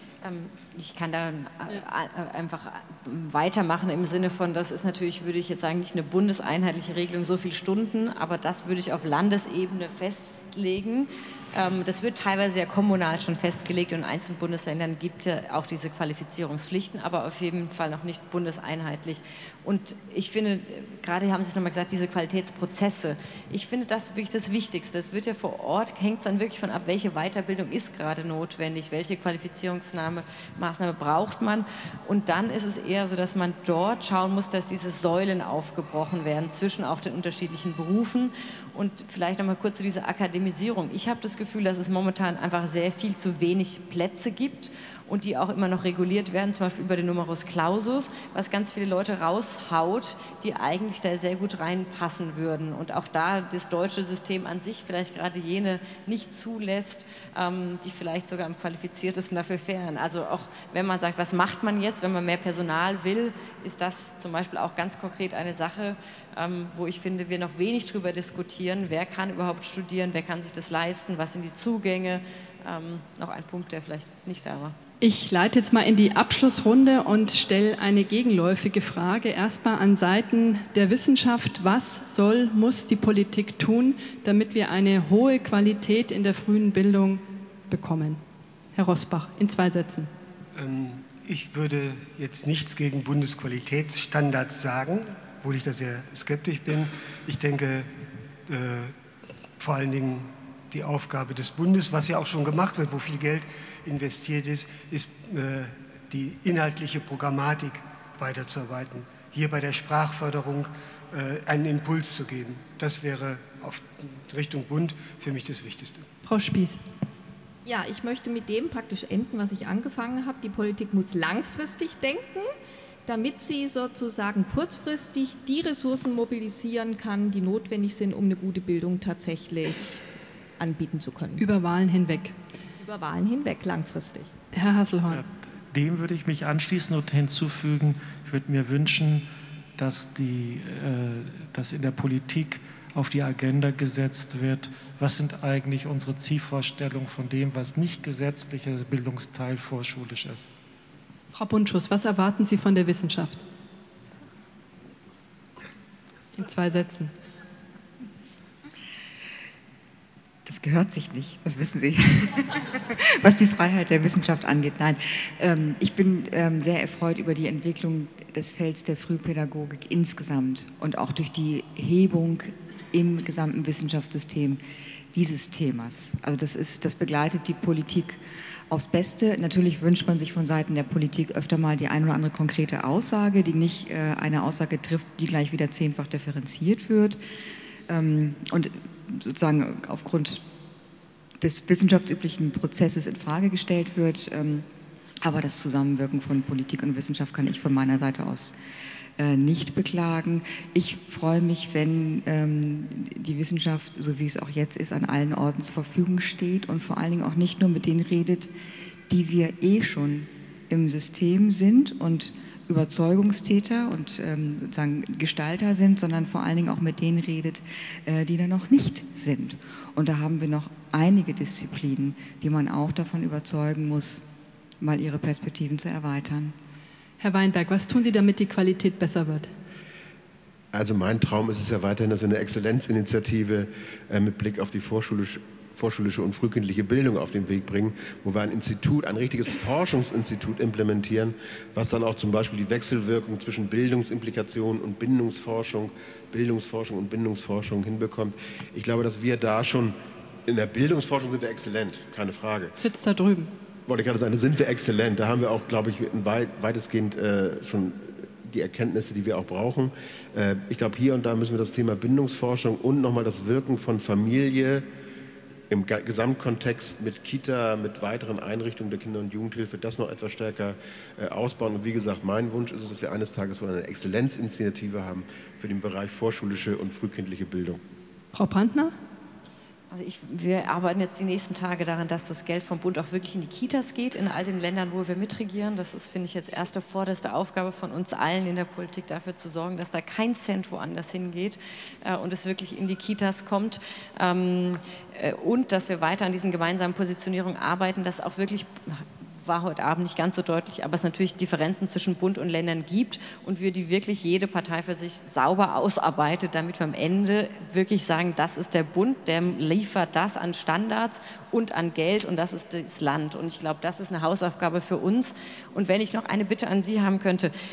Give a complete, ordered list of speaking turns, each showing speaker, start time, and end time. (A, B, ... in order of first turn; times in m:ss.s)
0:00.2-1:14.8 A
1:15.0-1:28.2 B
1:28.8-1:30.1 B
1:30.6-1:37.9 C
1:38.5-1:39.0 C
1:39.6-1:56.1 C
1:56.2-1:56.8 B
1:57.6-2:02.5 D
2:03.1-2:10.0 D
2:10.6-2:11.4 D
2:11.4-2:12.4 B
2:12.8-2:14.3 D
2:14.5-2:15.2 B
2:15.1-2:19.3 E
2:19.8-2:30.5 E
2:31.3-2:33.4 B
2:36.4-2:37.1 B
2:40.5-2:54.6 F
2:55.1-3:07.2 F
3:07.9-3:10.4 F
3:11.4-3:14.7 F
3:15.2-3:18.6 F
3:19.2-3:28.5 F
3:29.1-3:44.2 F
3:44.8-3:46.6 F
3:47.2-3:49.5 B
3:50.7-4:12.8 G
4:12.8-4:13.5 B
4:13.9-4:24.9 G
4:25.7-4:37.8 G
4:38.3-4:39.0 B
4:39.9-5:17.5 A